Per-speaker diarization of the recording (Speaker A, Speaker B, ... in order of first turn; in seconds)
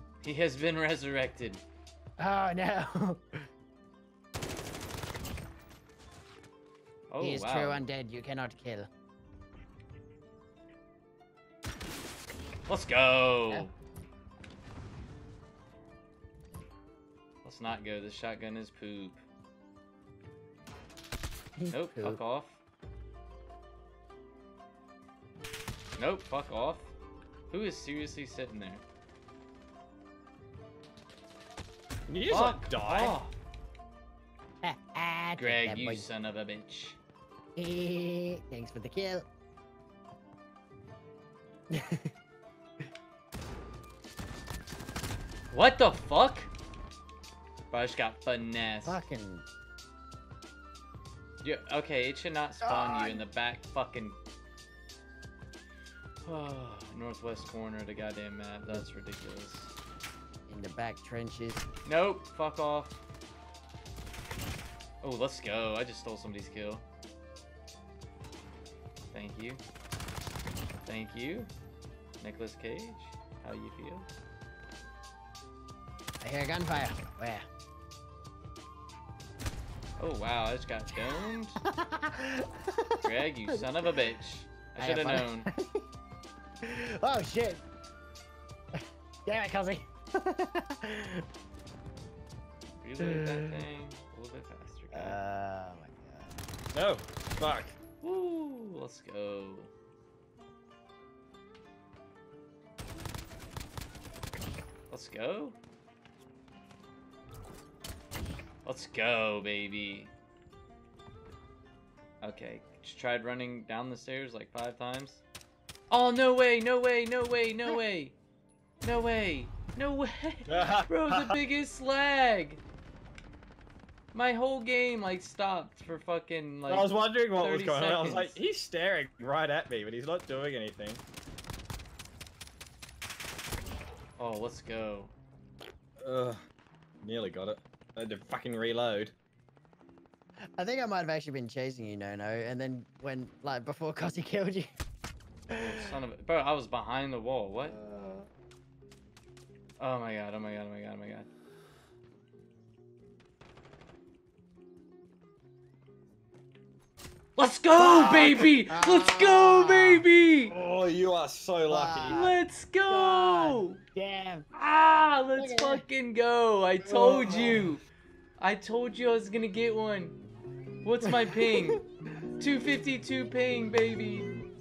Speaker A: 0.2-1.6, 7.1-7.8, 12.7-13.7, 17.4-19.2, 21.7-22.6, 26.0-26.9, 27.5-28.8, 32.3-33.3, 35.4-37.0, 45.5-46.5, 47.7-49.1, 51.4-54.2, 56.2-59.7, 61.9-63.0, 65.0-66.8, 69.1-69.6, 70.9-71.5, 72.2-74.1, 80.0-81.6, 83.0-85.5, 92.8-95.2, 98.0-99.7, 104.9-105.6, 108.7-110.1, 112.2-115.2, 115.9-118.2, 118.8-122.6, 124.1-128.4, 134.2-135.1, 145.5-147.8, 149.8-151.3, 157.4-160.5, 162.1-163.8, 164.5-167.8, 168.4-170.2, 170.8-171.8, 172.4-174.3
Speaker B: 2.2-3.4, 7.2-8.9, 21.6-22.2, 34.6-36.1, 37.6-39.2, 41.7-42.1, 48.9-49.5, 52.6-53.2, 60.5-61.6, 76.2-77.4, 81.0-83.7, 84.8-85.8, 86.7-87.6, 88.8-91.2, 93.0-93.6, 94.9-96.3, 140.6-144.7, 147.8-148.3, 157.8-160.1, 161.7-162.3, 162.9-164.5, 165.4-165.8, 171.1-171.8
Speaker C: 32.1-33.2, 96.7-97.8, 120.5-121.4, 126.7-131.0, 136.0-136.4, 137.0-139.1, 158.1-158.4, 160.5-162.3, 166.9-167.6